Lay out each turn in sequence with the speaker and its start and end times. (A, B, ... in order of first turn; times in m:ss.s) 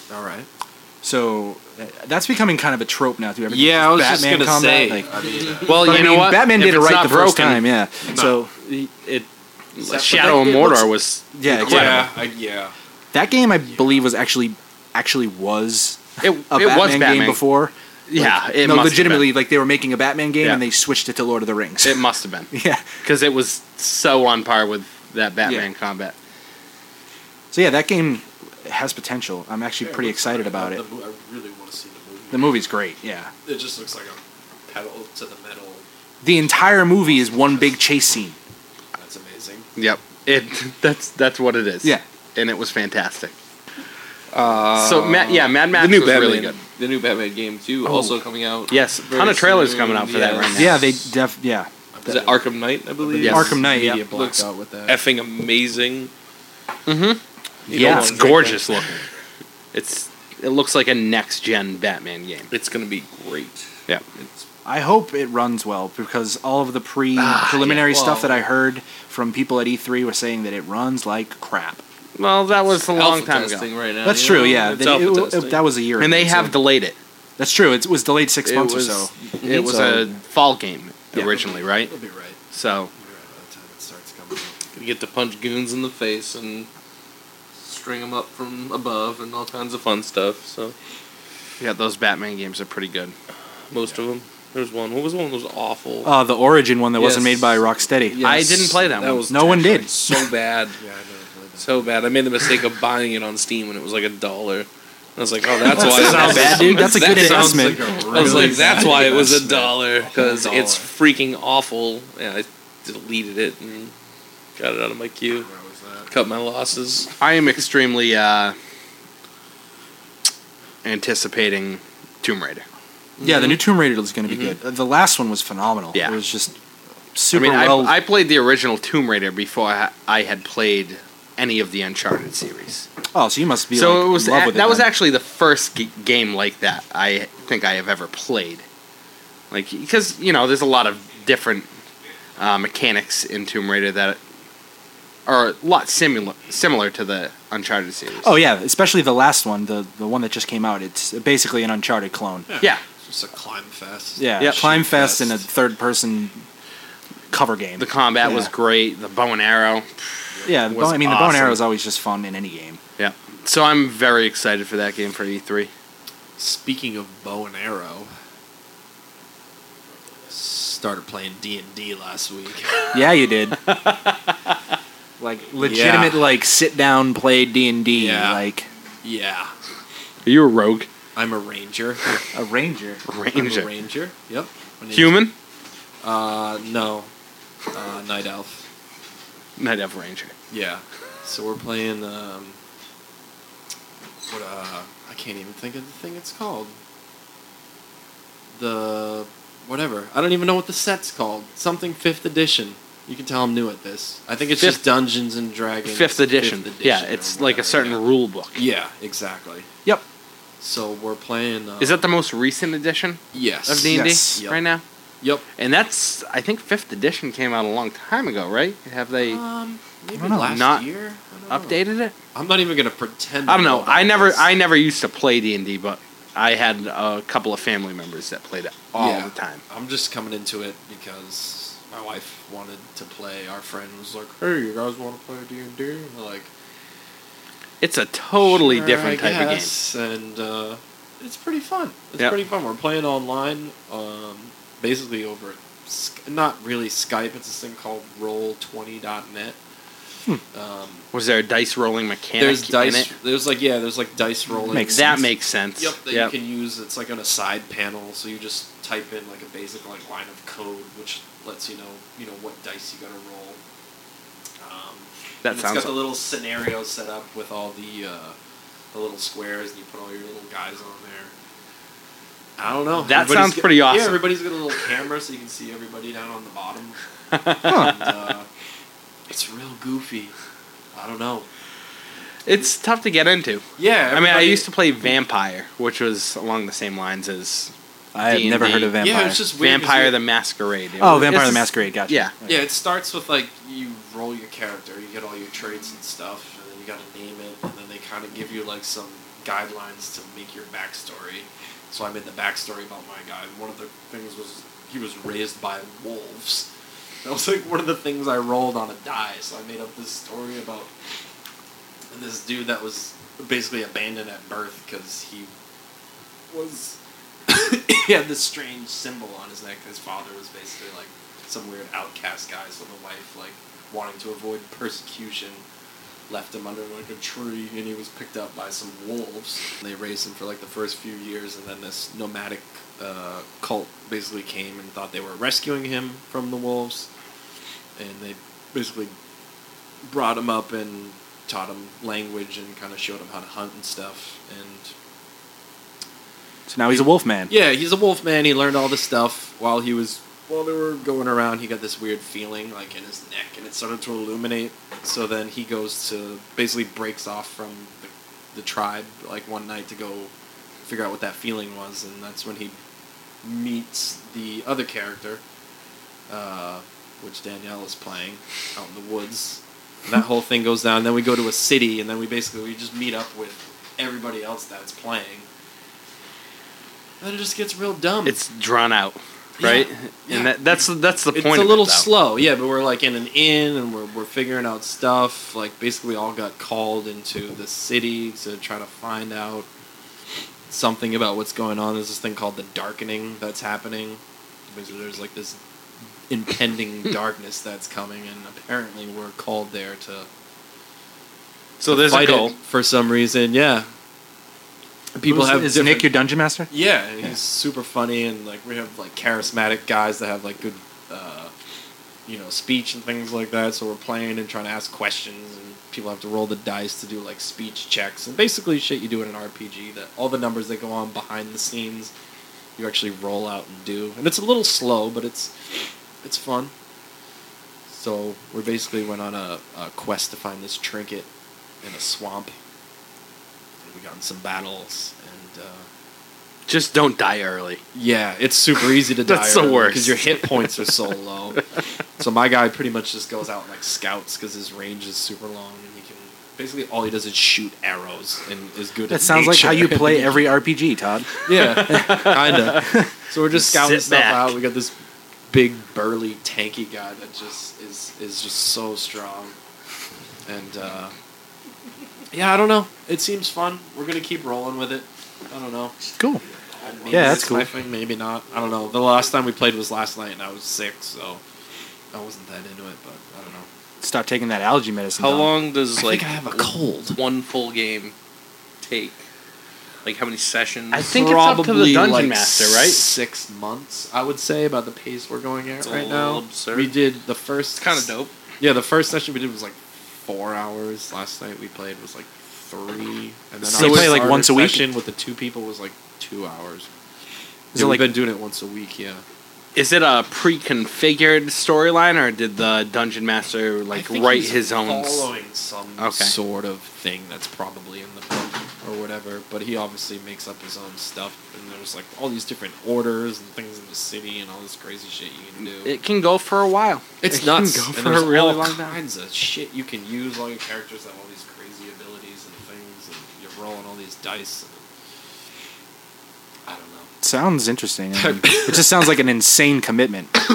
0:00.1-0:00.5 A
0:01.0-0:05.1 B
0:03.5-0:06.0 A
0:05.6-0:08.5 B
0:05.6-0:07.7 C
0:08.1-0:08.4 A
0:08.6-0:09.2 C
0:09.8-0:12.1 C
0:09.8-0:10.8 A
0:10.5-0:12.1 B
0:11.6-0:12.7 A
0:13.1-0:22.9 B
0:16.2-0:17.4 C
0:18.1-0:19.3 C
0:21.8-0:22.5 C
0:23.0-0:26.2 C
0:25.4-0:25.7 B
0:27.5-0:30.8 B
0:29.8-0:32.6 A
0:32.3-0:33.3 B
0:33.4-0:35.8 A
0:36.2-0:38.4 B
0:37.1-0:37.8 A
0:39.0-0:39.7 A
0:39.8-0:43.3 C
0:44.3-0:50.8 D
0:44.8-0:46.6 C
0:47.8-0:51.0 C
0:50.5-0:51.7 B
0:51.9-0:55.0 A
0:52.1-0:53.6 D
0:53.2-0:53.5 C
0:53.2-0:54.1 B
0:54.1-0:56.1 D
0:56.9-0:59.0 C
0:57.7-0:58.6 D
0:57.7-0:58.3 B
0:59.7-1:02.5 C
1:02.5-1:04.4 D
1:04.6-1:11.8 B
1:07.2-1:07.9 C
1:07.9-1:08.4 A
1:12.2-1:13.7 C
1:12.8-1:15.6 D
1:14.0-1:16.6 B
1:16.0-1:17.0 C
1:17.4-1:20.2 B
1:18.5-1:21.9 C
1:21.2-1:22.4 A
1:22.5-1:22.9 C
1:23.0-1:24.6 A
1:24.7-1:26.7 D
1:27.6-1:30.8 D
1:31.6-1:33.2 C
1:33.7-1:36.1 D
1:36.0-1:38.2 B
1:37.0-1:40.8 D
1:38.2-1:39.3 C
1:39.3-1:40.0 B
1:40.8-1:41.8 A
1:41.6-1:53.9 D
1:45.6-1:50.9 A
1:45.7-1:49.4 B
1:54.6-1:55.5 D
1:55.4-1:56.1 A
1:56.1-1:57.1 D
1:57.2-1:58.6 C
2:00.8-2:02.6 C
2:03.2-2:03.6 D
2:03.2-2:06.6 B
2:07.2-2:08.0 B
2:07.3-2:12.9 C
2:13.1-2:14.9 B
2:13.7-2:18.6 C
2:19.5-2:21.7 C
2:22.4-2:24.2 C
2:25.3-2:28.4 C
2:28.2-2:32.5 B
2:32.5-2:35.5 A
2:34.2-2:36.4 B
2:37.3-2:38.5 B
2:37.8-2:41.6 C
2:40.5-2:42.8 B
2:43.0-2:45.7 C
2:46.4-2:48.1 A
2:50.3-2:53.1 A
2:52.9-2:53.6 B
2:53.6-2:54.3 C
2:55.2-2:58.7 B
2:55.6-2:56.3 A
2:57.9-2:58.5 A
2:59.0-2:59.6 A
3:00.2-3:00.9 C
3:01.2-3:02.2 A
3:02.3-3:03.0 B
3:03.0-3:03.7 C
3:03.3-3:05.2 A
3:04.9-3:05.3 C
3:06.0-3:07.1 A
3:07.7-3:08.6 A
3:09.6-3:10.3 C
3:10.5-3:12.6 A
3:14.3-3:16.8 A
3:18.5-3:29.7 A
3:25.9-3:28.6 C
3:30.6-3:32.1 A
3:31.8-3:34.8 C
3:33.3-3:34.6 A
3:33.8-3:34.4 B
3:35.6-3:39.4 C
3:39.2-3:41.8 A
3:40.2-3:40.5 B
3:40.4-3:40.8 C
3:41.5-3:42.2 C
3:42.3-3:44.5 A
3:43.5-3:49.6 C
3:49.0-3:56.5 A
3:57.8-3:59.7 C
3:58.4-4:09.6 A
4:10.5-4:11.1 A
4:11.1-4:13.1 C
4:12.4-4:15.2 A
4:14.7-4:15.3 B
4:14.9-4:16.3 C
4:15.8-4:23.6 A
4:24.6-4:28.4 A
4:25.4-4:26.0 C
4:28.9-4:31.3 A
4:32.6-4:37.0 A
4:33.0-4:34.4 C
4:37.3-4:38.0 C
4:37.6-4:38.5 A
4:37.7-4:38.0 B
4:39.3-4:40.3 A
4:40.9-4:41.5 A
4:42.4-4:47.7 C
4:43.8-4:44.7 A
4:48.1-4:49.4 B
4:48.3-4:49.0 C
4:49.0-4:50.2 A
4:49.5-4:52.3 C
4:51.0-4:52.6 B
4:52.4-5:06.7 A
5:07.2-5:10.9 A
5:12.1-5:15.5 A
5:16.5-5:25.6 A
5:26.3-5:37.1 A
5:38.0-5:39.2 A
5:40.0-5:44.9 A
5:46.7-5:47.5 B
5:46.9-6:00.3 A
6:00.9-6:02.8 A
6:03.4-6:05.4 A
6:06.3-6:15.5 A
6:17.2-6:18.4 A
6:18.3-6:22.1 C
6:19.6-6:29.7 A
6:30.7-6:34.2 A
6:34.7-6:35.6 A
6:36.3-6:40.3 A
6:41.8-6:42.6 C
6:41.9-6:43.9 A
6:45.2-6:46.2 A
6:45.3-6:46.7 B
6:46.7-6:51.5 A
6:52.3-7:02.1 A
7:02.8-7:05.5 A
7:06.2-7:06.7 A
7:07.9-7:11.3 A
7:11.8-7:12.6 A
7:13.8-7:15.9 A
7:16.7-7:17.8 C
7:18.0-7:21.6 A
7:19.3-7:20.3 C
7:22.2-7:30.6 A
7:29.1-7:33.1 B
7:31.5-7:34.9 A
7:31.6-7:32.9 C
7:33.6-7:34.6 C
7:35.5-7:39.6 A
7:40.5-7:41.1 A
7:42.3-7:46.0 A
7:46.2-7:46.4 B
7:46.7-7:51.4 A
7:47.1-7:47.7 B
7:52.1-7:53.7 A
7:54.0-7:55.5 B
7:55.2-7:58.1 D
7:56.0-7:57.2 A
7:58.8-7:59.2 D
8:00.0-8:01.2 D
8:00.9-8:03.0 C
8:01.1-8:16.9 A
8:05.8-8:06.9 D
8:07.8-8:08.3 D
8:13.7-8:14.2 C
8:13.8-8:14.9 B
8:17.7-8:18.1 B
8:17.7-8:19.2 A
8:19.8-8:25.3 C
8:23.9-8:35.9 A
8:26.0-8:26.3 C
8:35.8-8:39.0 C
8:37.2-8:44.8 A
8:46.7-8:47.1 A
8:47.2-8:50.4 B
8:48.1-8:49.0 A